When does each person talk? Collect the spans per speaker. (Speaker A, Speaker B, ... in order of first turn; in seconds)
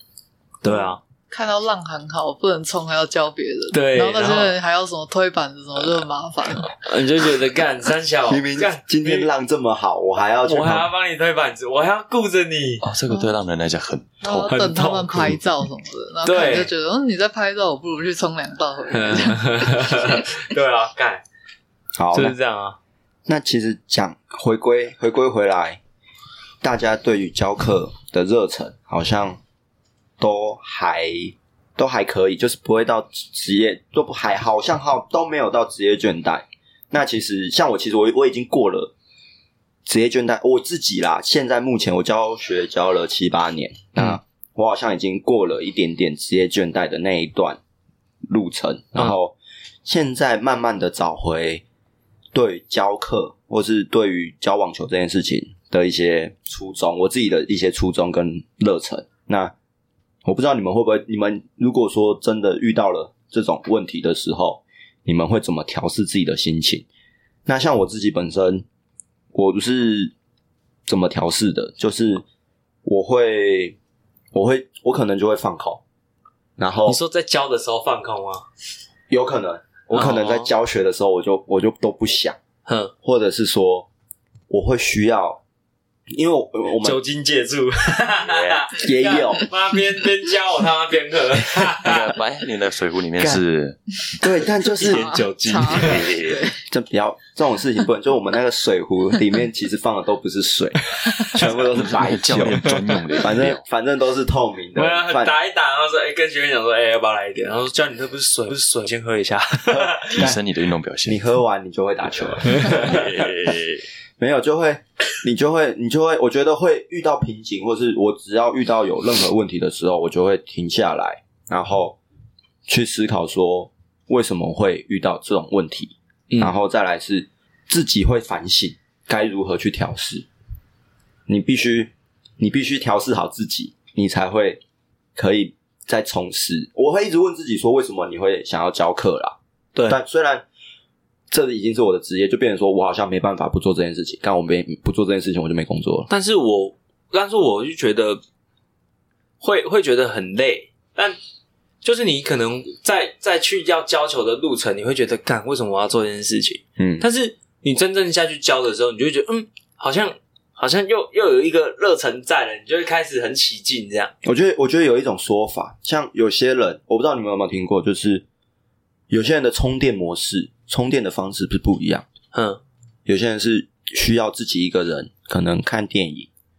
Speaker A: 0.6-1.0, 3.7-4.5, 6.7-9.3, 10.5-12.8, 14.5-15.4, 16.2-16.7, 18.9-21.2, 22.1-22.8, 76.9-78.5, 79.9-80.5, 82.7-82.9, 86.8-92.2, 94.8-96.1, 104.8-110.3, 112.5-113.0, 146.1-148.2, 149.4-151.2, 151.8-164.1, 172.3-172.6
Speaker B: 0.7-6.8, 14.2-20.3, 94.8-96.6
Speaker C: 8.3-10.9, 22.0-22.4, 23.3-25.8, 26.6-29.4, 30.2-38.9, 39.9-47.6, 48.3-51.6, 52.3-59.5, 60.2-66.9, 67.5-68.7, 69.3-70.1, 70.9-72.2, 72.8-73.8, 74.3-75.8, 76.6-77.0, 79.1-82.4, 83.0-83.9, 84.5-85.4, 86.1-87.0, 88.8-89.5, 94.2-95.1, 96.7-105.3, 109.7-110.4, 111.1-113.3, 114.2-122.0, 122.7-130.3, 131.3-134.6, 135.2-140.5, 141.3-146.1, 156.8-157.1, 164.2-168.2, 169.1-172.1, 173.1-176.3
Speaker D: 12.8-14.6, 88.2-88.7, 91.8-93.8, 95.7-96.5, 101.8-103.6, 110.1-111.2, 112.7-113.8